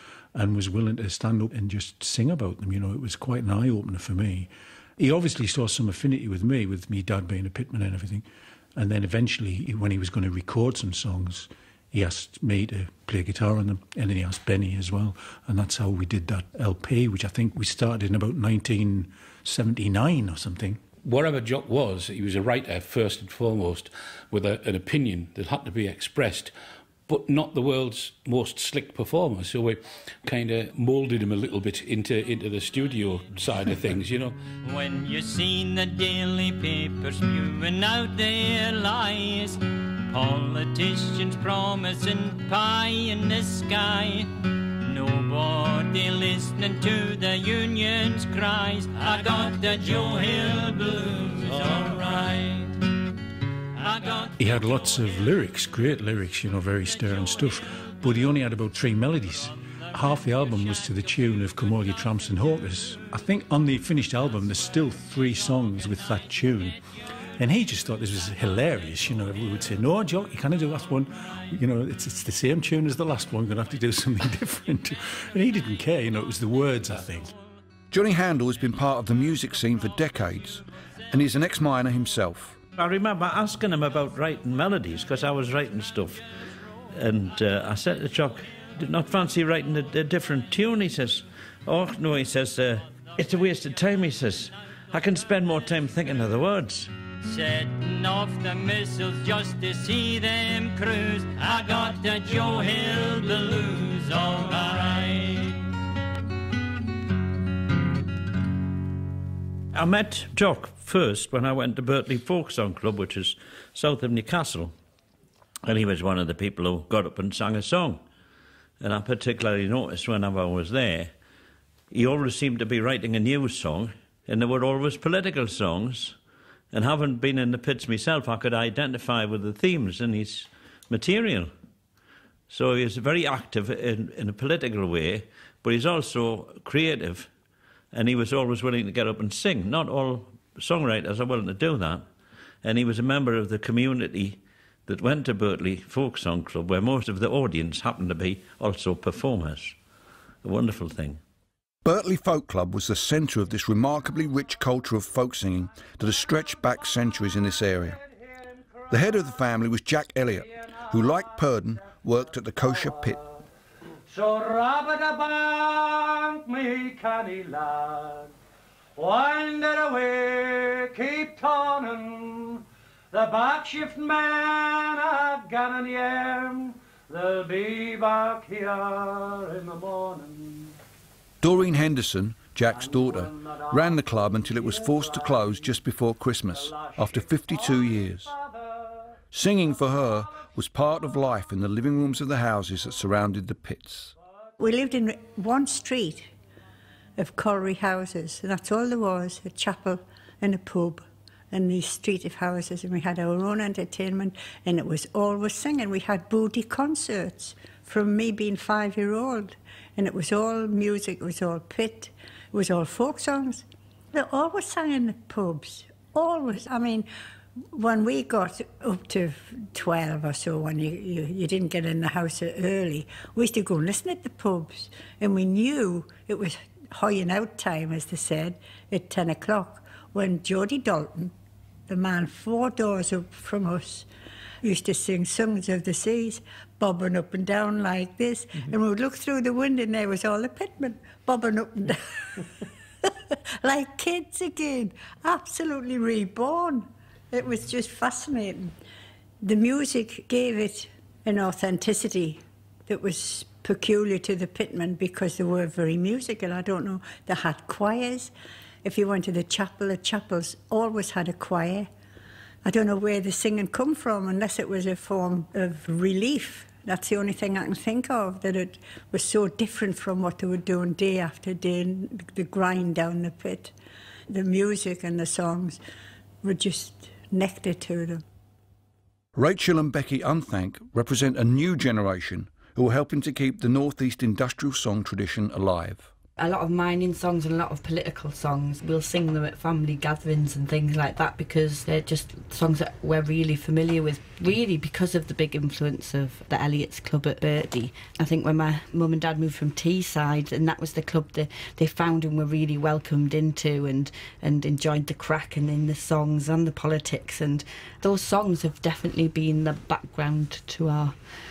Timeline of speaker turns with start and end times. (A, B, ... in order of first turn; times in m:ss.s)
0:00.3-0:20.8 A
0:21.0-0:26.5 B
0:27.1-0:34.5 B
0:34.6-0:52.9 C
0:53.8-0:54.4 C
0:54.4-1:06.8 A
1:07.4-1:17.3 A
1:17.9-1:22.6 D
1:22.8-1:26.2 E
1:26.9-1:36.9 E
1:37.2-1:45.7 C
1:49.7-1:54.7 E
1:55.7-1:58.0 E
1:58.8-2:01.1 E
2:01.9-2:06.2 E
2:06.7-2:11.5 E
2:12.5-2:17.3 E
2:17.9-2:22.1 E
2:22.6-2:29.8 E
2:30.4-2:31.2 E
2:31.8-2:38.0 D
2:38.9-2:43.2 D
2:44.4-2:45.2 F
2:46.6-2:47.4 F
2:49.2-2:52.1 F
2:53.3-2:54.3 F
2:55.5-2:56.3 F
3:01.4-3:08.4 D
3:09.3-3:14.1 D
3:14.6-3:16.3 G
3:17.2-3:37.1 G
3:37.7-3:51.3 G
3:51.9-3:54.1 G
3:54.6-4:02.5 G
4:03.6-4:08.8 G
4:09.4-4:18.3 G
4:18.8-4:21.9 G
4:22.6-4:33.8 G
4:34.3-4:35.8 G
4:36.4-4:38.2 G
4:39.4-4:46.1 D
4:46.4-5:11.2 H